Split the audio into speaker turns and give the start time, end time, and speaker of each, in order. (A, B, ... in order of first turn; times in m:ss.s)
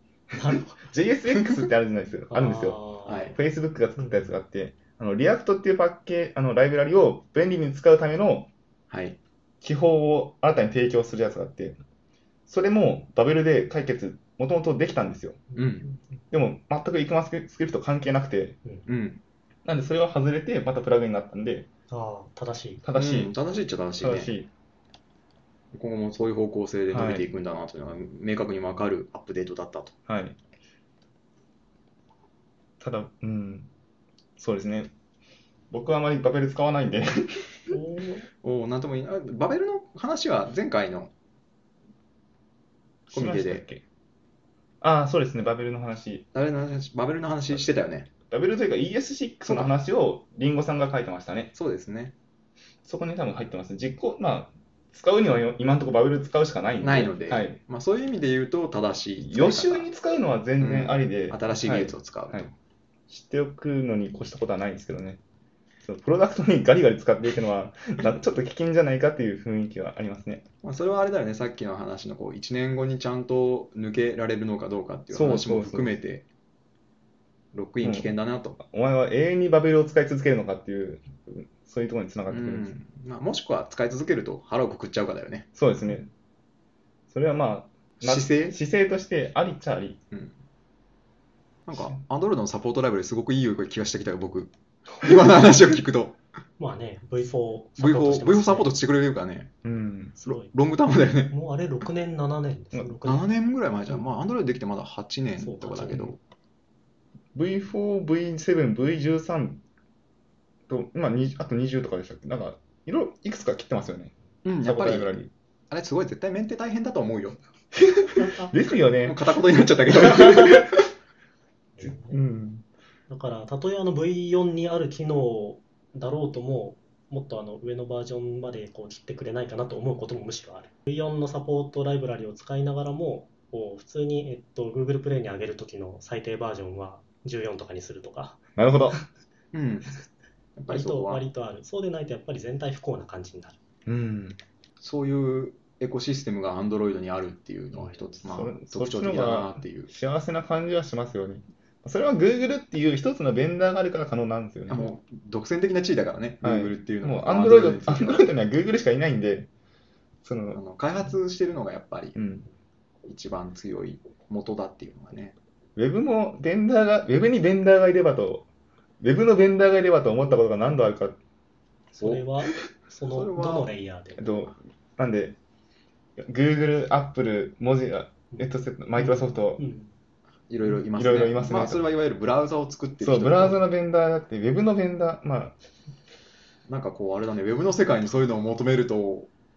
0:00.3-0:00.8 A
0:00.5-0:08.5 B
0:01.4-0:01.7 C
0:02.3-0:03.4 A
0:03.1-0:03.4 C
0:04.0-0:04.3 A
0:08.9-0:09.2 C
0:09.6-0:11.8 B
0:12.5-0:15.4 B
0:15.5-0:16.0 A
0:15.6-0:15.9 C
0:16.3-0:18.6 B
0:18.9-0:19.2 C
0:19.6-0:21.7 B
0:21.9-0:22.8 A
0:22.8-0:23.3 B
0:22.9-0:24.3 C
0:24.0-0:24.5 B
0:25.7-0:30.0 C
0:26.9-0:27.3 B
0:30.1-0:30.4 B
0:32.8-0:33.7 B
0:34.4-0:34.9 B
0:35.7-0:37.6 B
0:37.7-0:38.3 A
0:38.4-0:41.1 C
0:43.1-0:43.8 B
0:43.1-0:43.6 C
0:44.8-0:46.3 B
0:46.3-0:48.1 C
0:48.3-0:51.5 B
0:49.5-0:49.7 C
0:51.6-0:52.1 C
0:52.8-0:57.6 B
0:56.8-0:59.9 C
0:59.2-1:02.5 B
1:00.6-1:02.5 C
1:03.1-1:05.2 B
1:05.8-1:10.4 B
1:10.6-1:16.3 C
1:15.1-1:16.0 B
1:17.5-1:18.6 C
1:17.8-1:22.7 B
1:22.3-1:25.5 C
1:25.6-1:26.1 B
1:27.1-1:30.0 B
1:28.0-1:28.6 C
1:31.7-1:36.2 C
1:31.7-1:32.0 B
1:36.6-1:38.7 A
1:37.8-1:39.5 C
1:39.6-1:40.3 B
1:40.3-1:40.5 A
1:40.3-1:41.4 C
1:41.3-1:43.3 A
1:43.0-1:46.2 C
1:45.4-1:46.1 A
1:47.4-1:49.6 B
1:50.7-1:55.3 B
1:54.4-1:55.2 C
1:55.7-1:57.4 C
1:57.8-1:59.2 B
1:59.0-2:00.8 C
2:00.1-2:00.6 B
2:01.8-2:02.2 A
2:01.8-2:02.6 B
2:03.1-2:18.4 A
2:18.6-2:19.0 B
2:19.5-2:20.0 C
2:20.6-2:21.2 C
2:20.7-2:23.6 A
2:23.9-2:24.4 B
2:24.8-2:29.9 C
2:27.7-2:28.0 A
2:28.2-2:34.9 B
2:34.7-2:38.3 C
2:36.4-2:39.5 B
2:40.2-2:40.6 B
2:40.5-2:42.2 C
2:42.2-2:42.5 B
2:43.0-2:45.4 C
2:45.8-2:48.5 B
2:49.0-2:51.2 B
2:51.9-2:54.5 A
2:52.0-2:52.3 C
2:53.1-2:53.7 C
2:54.2-2:55.4 B
2:56.2-2:59.6 B
2:58.3-2:59.9 A
3:00.5-3:03.7 C
3:00.9-3:01.8 B
3:03.0-3:05.6 B
3:06.7-3:09.3 C